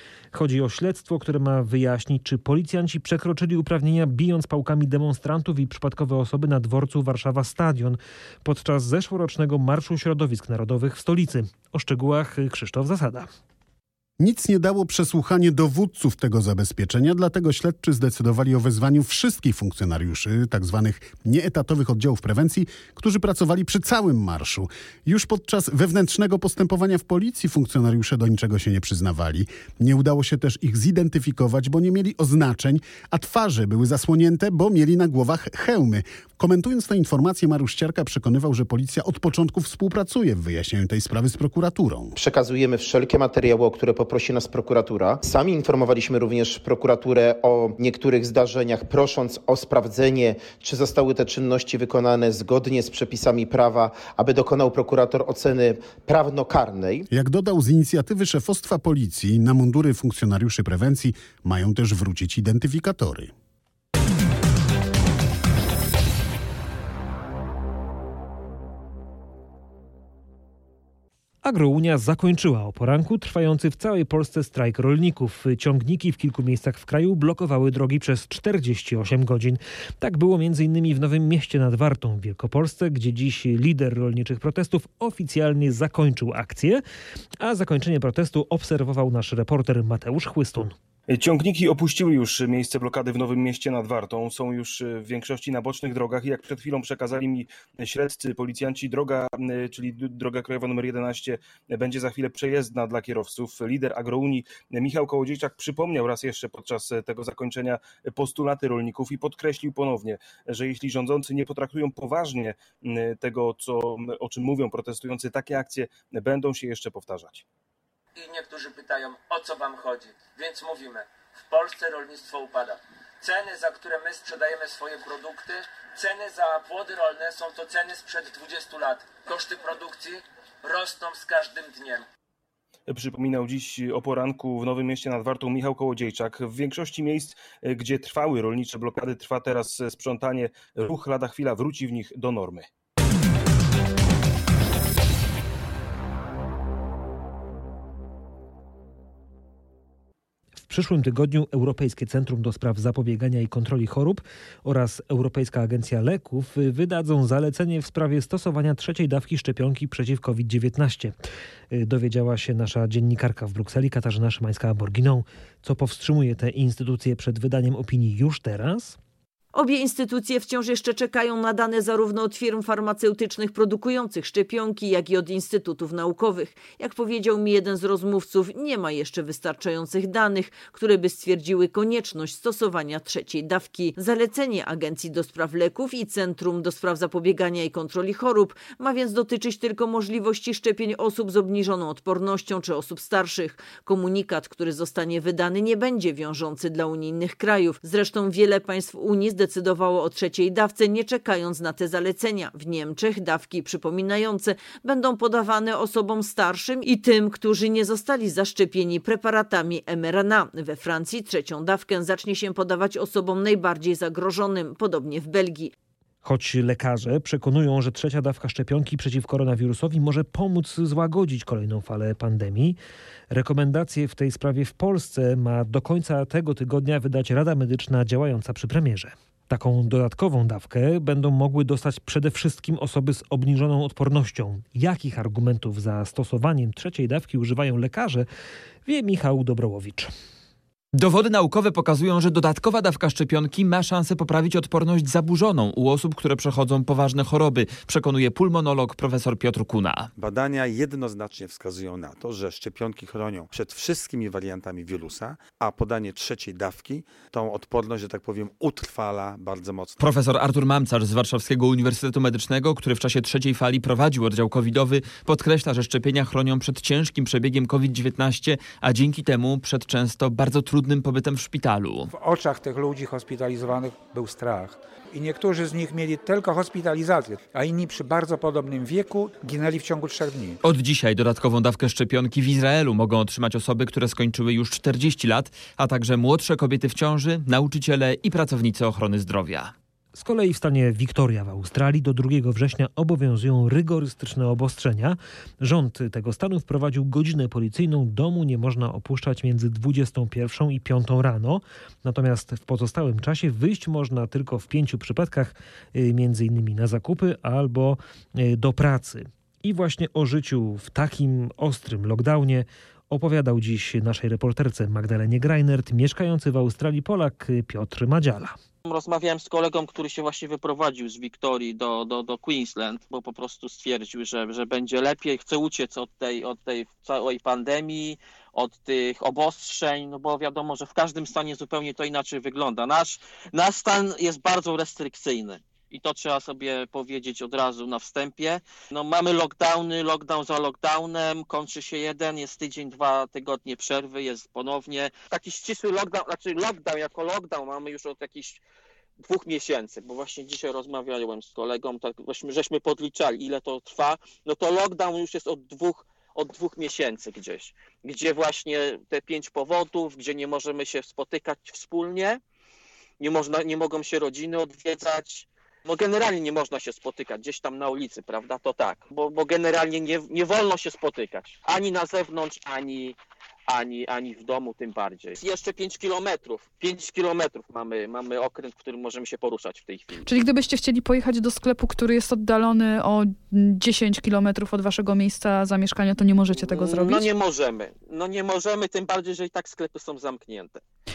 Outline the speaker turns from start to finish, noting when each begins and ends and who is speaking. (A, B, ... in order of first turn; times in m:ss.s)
0:00.3-0:13.3 A
0:14.2-0:42.2 B
0:42.2-0:57.0 C
0:57.1-1:03.3 B
1:11.4-1:26.8 A
1:27.4-1:30.7 A
1:31.1-1:57.4 D
1:58.1-2:12.0 E
2:12.9-2:22.7 D
2:30.7-2:41.2 A
2:41.7-2:49.0 A
2:49.5-3:35.7 F
3:36.2-3:42.8 A
3:43.3-3:58.3 A
3:58.8-4:00.1 A
4:00.9-4:10.1 G
4:10.2-4:20.0 H
4:20.0-4:32.1 G
4:32.1-4:40.6 I
4:40.6-4:49.7 G
4:50.1-5:18.6 A
5:18.8-5:48.6 J
5:49.2-6:02.4 J
6:03.2-6:13.2 J
6:13.7-6:20.3 J
6:20.2-6:27.3 K
6:26.5-6:30.8 J